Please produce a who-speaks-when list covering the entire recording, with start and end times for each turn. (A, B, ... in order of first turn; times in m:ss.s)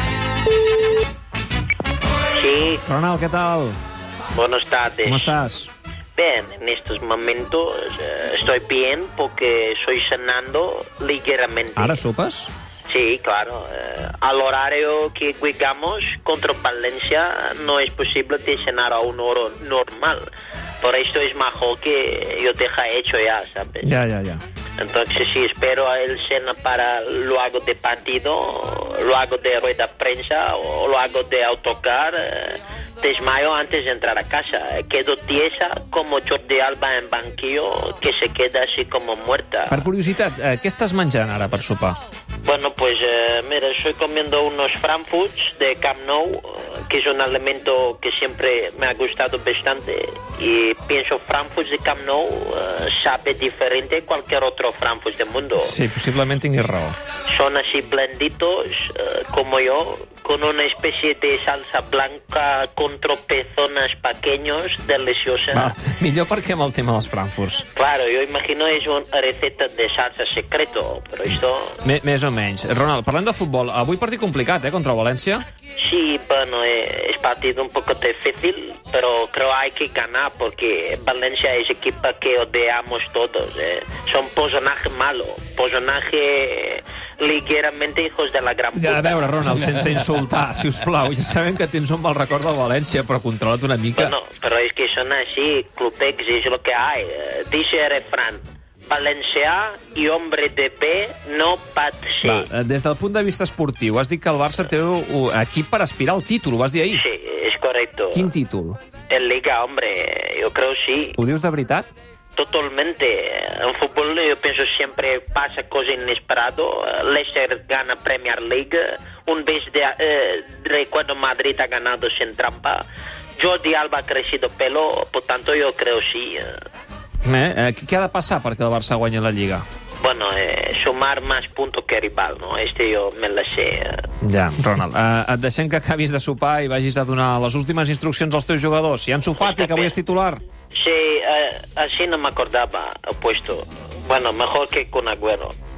0:02.4-0:02.8 A
0:02.9-0:03.8 B
0:04.3-0:05.4 A
0:05.1-0:05.7 B
0:06.2-0:12.0 A
0:11.8-0:12.5 B
0:12.9-0:20.2 A
0:20.8-0:24.0 A
0:23.8-0:24.4 B
0:24.8-0:39.8 A
0:39.7-0:42.0 B
0:42.4-0:55.8 A
0:55.6-0:57.0 B
0:57.3-1:05.7 A
1:05.5-1:07.7 B
1:07.8-1:11.8 A
1:11.8-1:15.4 B
1:15.8-1:29.6 A
1:28.7-1:34.2 B
1:34.0-1:42.5 A
1:42.2-1:47.0 B
1:46.9-1:48.3 A
1:48.1-1:48.8 B
1:49.1-1:51.2 A
1:51.2-1:51.9 B
1:52.4-2:02.8 A
2:03.4-2:06.6 A
2:07.2-2:09.6 B
2:10.0-2:14.1 A
2:14.2-2:20.4 B
2:19.4-2:20.0 A
2:20.8-2:25.5 A